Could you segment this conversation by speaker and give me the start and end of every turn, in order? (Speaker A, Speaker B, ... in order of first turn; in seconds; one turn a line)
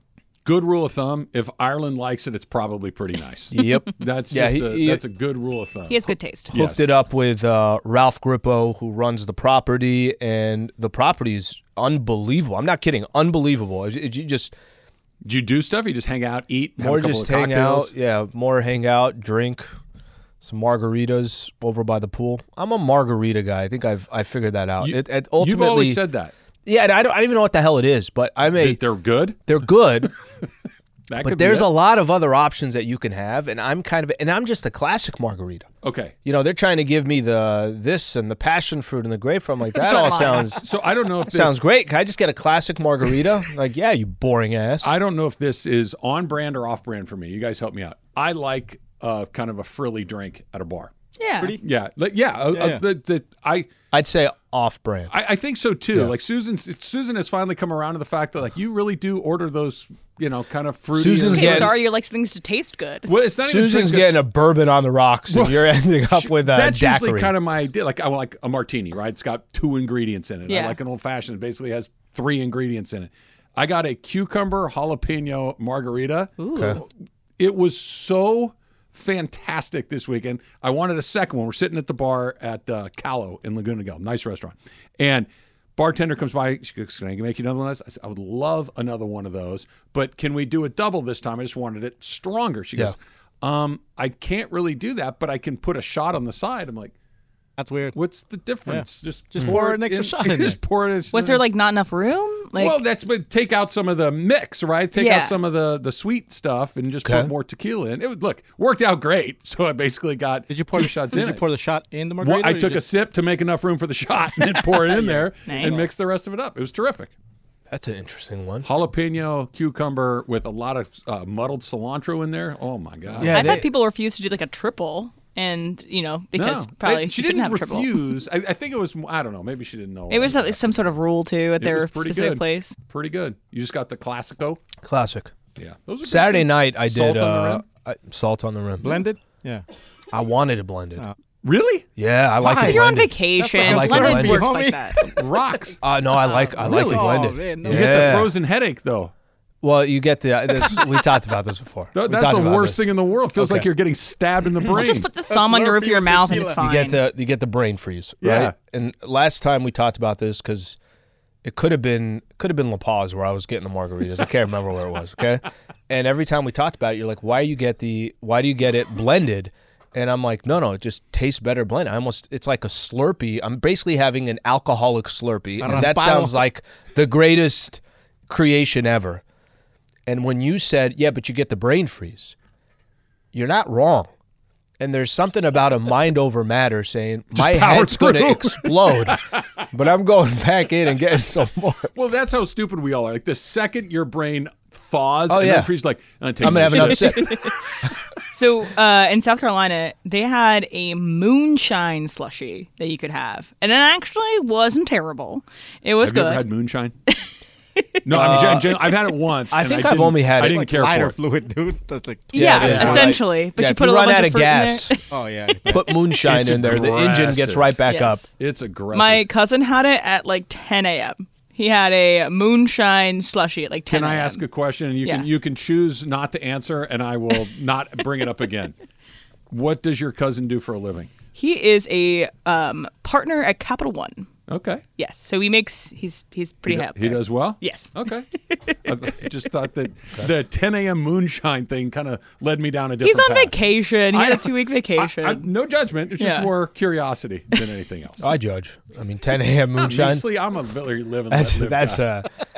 Speaker A: 0.4-6.8
Speaker B: 3.5-5.0
Speaker C: 5.9-6.5
Speaker B: 6.5-14.5
Speaker A: 15.2-17.9
Speaker B: 16.8-19.7
Speaker B: 20.4-26.0
Speaker A: 24.8-26.3
Speaker B: 26.6-28.8
Speaker A: 28.5-29.6
Speaker B: 29.4-30.1
Speaker A: 31.1-31.7
Speaker B: 31.2-35.7
Speaker A: 35.8-36.1
Speaker B: 36.2-40.6
Speaker A: 39.8-41.6
Speaker C: 39.8-40.4
Speaker B: 41.2-45.0
Speaker A: 44.8-50.9
Speaker C: 51.2-51.5
Speaker A: 51.6-53.7
Speaker D: 52.5-52.8
Speaker B: 53.9-55.1
Speaker A: 55.1-61.8
Speaker B: 60.9-61.8
Speaker C: 61.3-63.1
Speaker A: 63.0-64.2
Speaker B: 63.4-67.3
Speaker A: 65.3-76.8
Speaker C: 70.5-70.8
Speaker C: 76.4-76.8
Speaker A: 77.4-96.9
Speaker D: 97.6-97.9
Speaker A: 97.9-101.4
Speaker D: 98.7-100.6
Speaker C: 101.1-102.8
Speaker A: 102.5-111.4
Speaker C: 104.9-105.4
Speaker B: 107.0-107.3
Speaker D: 110.5-112.9
Speaker A: 112.2-117.1
Speaker D: 114.9-115.8
Speaker C: 115.5-115.8
Speaker B: 117.7-118.7
Speaker A: 118.6-123.5
Speaker B: 123.2-123.7
Speaker C: 123.3-128.1
Speaker A: 126.3-130.8
Speaker C: 130.1-132.8
Speaker A: 131.6-134.6
Speaker B: 134.8-135.3
Speaker A: 135.6-137.6
Speaker B: 136.0-139.0
Speaker D: 138.8-139.6
Speaker B: 140.1-141.1
Speaker A: 141.4-141.8
Speaker B: 142.0-143.1
Speaker C: 142.4-145.0
Speaker D: 142.4-145.1
Speaker B: 143.7-144.5
Speaker A: 145.1-145.8
Speaker B: 145.8-148.3
Speaker D: 146.2-148.3
Speaker A: 146.6-149.1
Speaker B: 149.6-153.7
Speaker A: 151.9-155.1
Speaker C: 154.7-157.0
Speaker D: 155.2-156.6
Speaker B: 156.6-160.8
Speaker A: 158.2-158.5
Speaker B: 161.4-179.2
Speaker D: 175.6-176.4
Speaker B: 180.1-182.3
Speaker B: 183.3-184.1
Speaker B: 184.8-191.9
Speaker A: 187.3-189.4
Speaker A: 191.9-197.5
Speaker B: 195.3-195.7
Speaker B: 196.4-197.3
Speaker C: 198.3-206.4
Speaker A: 206.0-206.9
Speaker A: 208.0-211.2
Speaker B: 208.1-208.7
Speaker B: 209.5-210.7
Speaker D: 210.7-213.1
Speaker C: 212.3-215.0
Speaker B: 212.3-215.0
Speaker A: 212.6-213.1
Speaker D: 215.1-215.9
Speaker B: 215.7-218.2
Speaker A: 216.2-217.7
Speaker C: 217.9-218.2
Speaker A: 218.4-219.2
Speaker C: 218.9-224.4
Speaker A: 223.9-228.8
Speaker A: 229.5-231.1
Speaker C: 231.3-234.3
Speaker A: 234.5-234.8
Speaker C: 235.0-237.9
Speaker A: 236.7-238.3
Speaker C: 238.5-238.8
Speaker A: 238.8-243.5
Speaker C: 243.0-245.4
Speaker A: 244.1-248.3
Speaker C: 246.2-246.5
Speaker B: 248.2-250.2
Speaker A: 249.8-252.0
Speaker B: 251.3-252.3